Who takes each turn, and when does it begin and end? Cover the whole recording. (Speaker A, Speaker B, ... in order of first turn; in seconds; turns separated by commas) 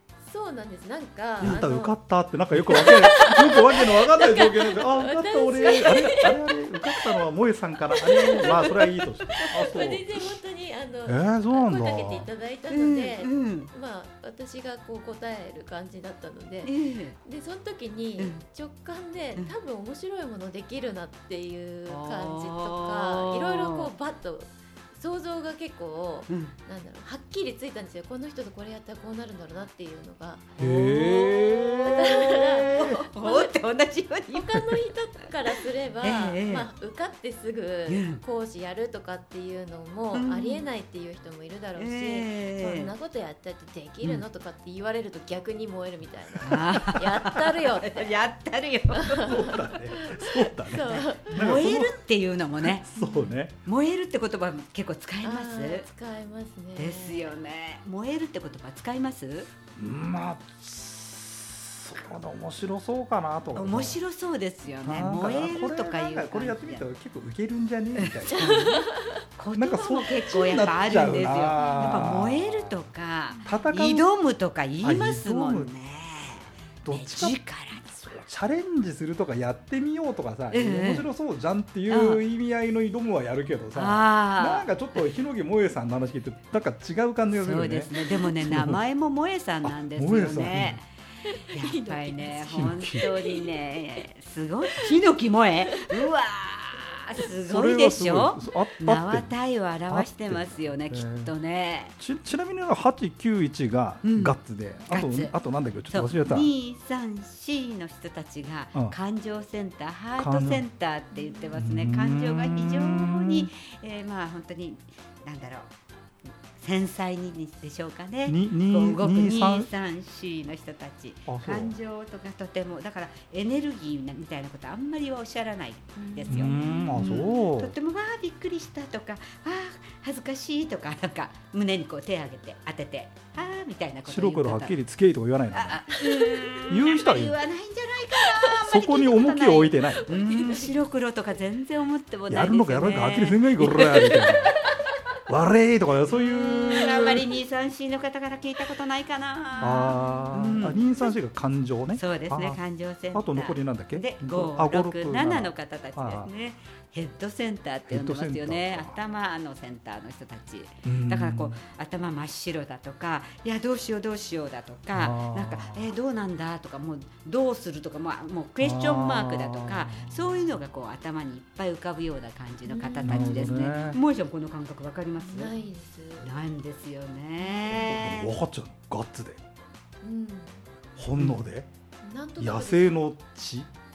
Speaker A: 0.2-1.9, Speaker B: 1.4-10.3, Speaker A: 2.7-7.2, Speaker C: 8.2-9.5, Speaker A: 8.2-8.6, Speaker A: 9.5-30.4, Speaker B: 11.1-12.3, Speaker C: 12.7-13.7, Speaker C: 16.6-17.2, Speaker C: 18.2-18.4, Speaker C: 21.9-23.9, Speaker C: 26.3-26.5, Speaker C: 30.6-34.6, Speaker B: 30.6-31.9, Speaker A: 31.8-33.5, Speaker A: 34.3-48.3, Speaker C: 36.0-36.7, Speaker C: 37.9-38.2, Speaker C: 40.1-40.6, Speaker C: 41.8-42.9, Speaker C: 46.4-49.4, Speaker A: 48.9-51.7, Speaker B: 49.1-52.0, Speaker C: 51.3-52.8, Speaker B: 52.6-53.5, Speaker A: 53.0-53.4, Speaker C: 53.6-55.9, Speaker A: 55.2-57.3, Speaker C: 56.8-59.5, Speaker B: 59.8-64.0, Speaker C: 63.5-66.9, Speaker B: 64.8-68.7, Speaker C: 68.0-78.2, Speaker A: 68.2-69.2, Speaker B: 69.5-72.8, Speaker A: 71.5-72.1, Speaker A: 73.3-73.7, Speaker B: 73.5-74.1, Speaker B: 74.8-75.7, Speaker B: 76.8-77.4, Speaker B: 78.0-88.8, Speaker C: 80.5-81.1, Speaker C: 81.9-82.2, Speaker C: 83.7-85.1, Speaker C: 87.3-90.9, Speaker B: 89.6-90.8, Speaker A: 91.2-94.0, Speaker C: 91.5-101.9, Speaker B: 92.5-93.1, Speaker A: 95.7-96.1, Speaker B: 97.5-99.3, Speaker B: 99.9-101.3, Speaker B: 102.0-106.5, Speaker C: 104.0-104.4, Speaker C: 104.9-105.3, Speaker C: 105.9-115.7, Speaker B: 110.2-110.6, Speaker A: 111.1-111.4, Speaker B: 111.5-113.5, Speaker C: 116.5-134.8, Speaker B: 118.2-119.7, Speaker B: 121.3-121.7, Speaker A: 126.0-127.2, Speaker B: 126.3-127.7, Speaker B: 134.1-135.8, Speaker C: 135.5-144.6, Speaker A: 135.9-136.8, Speaker B: 136.7-137.4, Speaker B: 138.6-140.1, Speaker A: 139.9-140.7, Speaker B: 142.3-144.6, Speaker A: 144.1-144.3, Speaker B: 145.3-147.2, Speaker C: 146.1-151.1, Speaker A: 149.6-150.8, Speaker B: 149.6-152.6, Speaker C: 151.9-175.5, Speaker B: 153.1-156.3, Speaker B: 157.9-159.0, Speaker B: 160.8-161.6, Speaker B: 164.9-165.9, Speaker B: 168.6-170.4, Speaker A: 172.6-173.5, Speaker B: 173.0-174.0, Speaker A: 175.2-176.3, Speaker C: 176.2-178.3, Speaker A: 177.4-177.9, Speaker B: 177.7-179.4, Speaker A: 180.0-180.6, Speaker B: 181.0-181.7, Speaker A: 182.0-183.0, Speaker B: 182.4-183.7